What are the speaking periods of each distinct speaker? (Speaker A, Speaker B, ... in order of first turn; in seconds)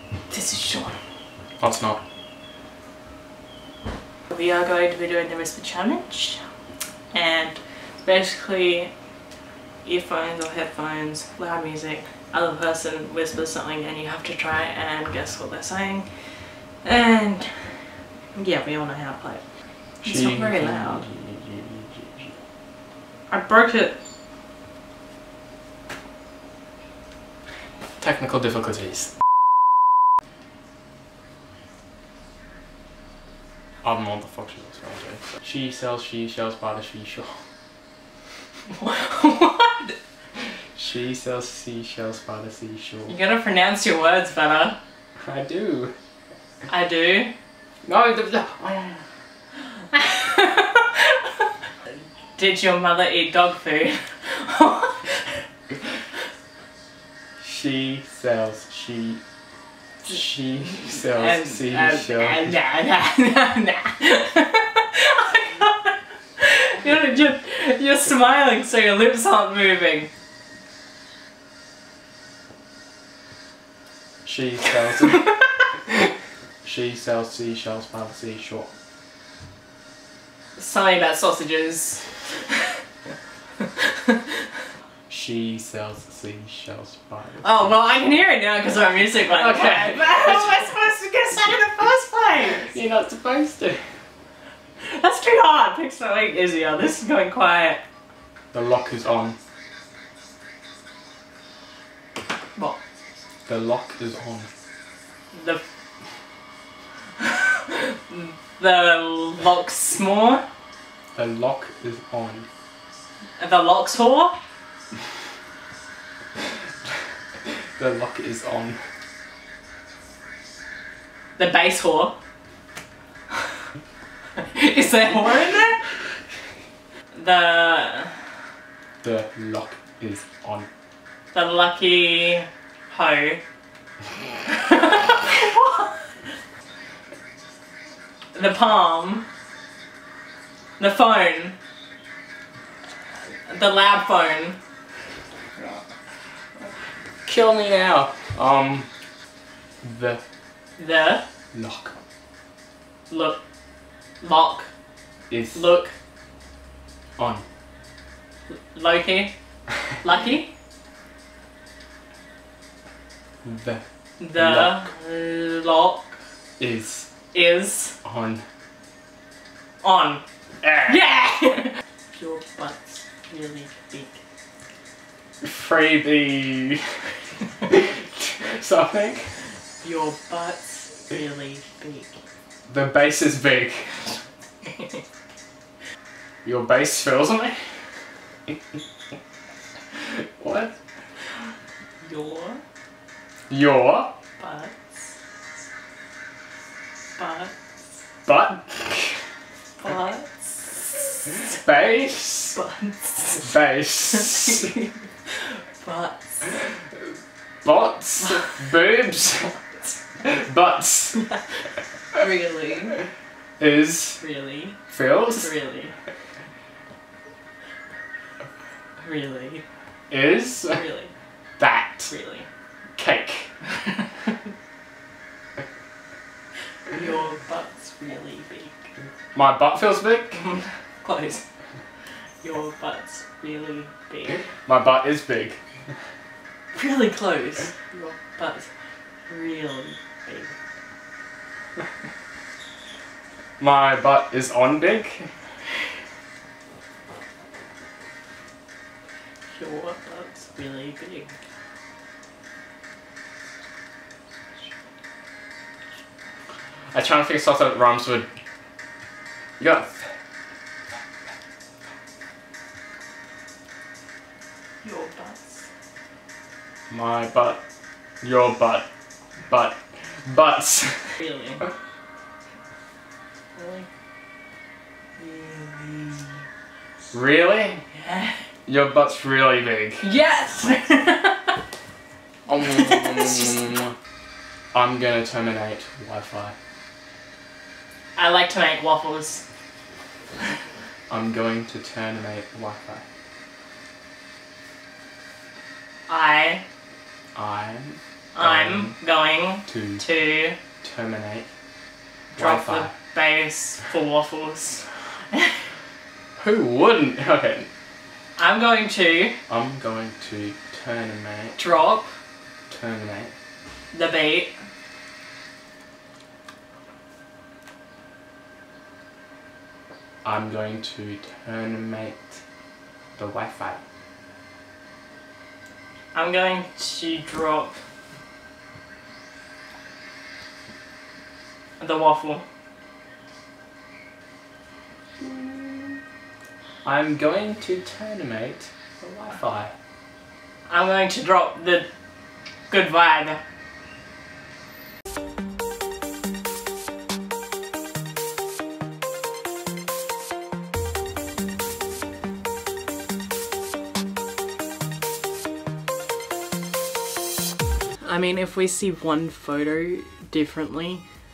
Speaker A: 0.3-1.0, 4.3-6.4, 7.1-8.9, 9.8-19.4, 20.0-21.0, 23.3-24.0, 38.7-39.9, 43.1-44.8, 46.7-47.3, 49.9-51.4, 52.4-55.4, 60.8-70.1, 80.5-82.7, 83.8-84.2, 87.4-92.7, 94.8-97.8, 105.3-105.6, 107.2-110.5, 113.4-114.4, 121.4-122.1, 124.3-125.8, 127.1-128.2, 131.3-133.4, 134.5-136.1, 138.3-139.2, 140.8-141.6, 143.5-144.6, 150.8-151.2, 153.1-153.4, 154.2-154.7, 155.5-155.9, 158.5-159.3, 160.0-160.5, 164.2-166.2, 167.3-167.9, 169.8-170.2, 170.8-174.2, 179.8-182.2, 184.6-185.0, 192.0-192.6, 194.4-194.7, 197.2-197.5, 199.8-201.4, 202.5-203.5, 204.1-206.6, 212.1-213.0, 214.2-214.8, 215.4-215.9, 219.0-219.6, 220.7-221.1, 222.1-222.5, 226.9-228.9, 230.4-231.4, 232.4-234.4, 236.7-238.7, 239.3-240.5, 249.5-251.4, 264.8-265.6, 271.1-271.6, 273.5-273.9, 275.2-276.4, 277.9-278.4, 280.0-281.6, 282.7-283.6, 288.1-289.4, 296.1-296.6, 298.3-300.6, 302.3-305.5, 308.4-309.4, 311.6-312.1, 313.9-314.5, 326.1-327.8, 331.8-332.4, 340.7-341.9, 342.7-343.4, 358.0-361.0
Speaker B: 1.6-2.0, 20.0-22.4, 28.0-29.1, 33.8-37.4, 40.7-43.1, 45.2-45.9, 47.8-49.0, 57.4-59.2, 60.0-62.5, 74.2-75.3, 76.6-78.7, 85.1-87.5, 89.3-90.6, 92.5-93.8, 98.5-99.4, 103.5-104.5, 111.1-112.5, 117.5-118.8, 129.0-130.7, 147.2-148.9, 149.8-150.2, 151.5-151.9, 155.3-155.7, 157.2-157.4, 163.4-163.8, 164.3-164.9, 166.6-167.1, 168.0-168.4, 170.6-171.0, 175.4-177.0, 177.6-179.3, 182.7-184.1, 186.4-187.6, 190.0-190.8, 193.5-194.1, 198.2-199.2, 201.3-202.6, 203.3-204.7, 207.6-209.6, 210.2-211.2, 213.6-214.2, 214.9-215.5, 220.1-220.8, 221.6-222.1, 222.9-223.5, 229.3-230.4, 234.7-235.6, 243.6-245.3, 256.9-258.3, 259.6-260.1, 266.9-267.6, 268.2-268.9, 269.5-271.1, 277.1-277.8, 278.7-280.1, 282.4-283.9, 284.7-286.5, 291.1-293.0, 297.3-298.9, 299.7-300.0, 300.8-301.5, 302.4-302.9, 306.4-307.7, 309.5-311.6, 312.7-313.3, 320.2-322.4, 323.2-323.8, 335.2-336.0, 336.8-339.7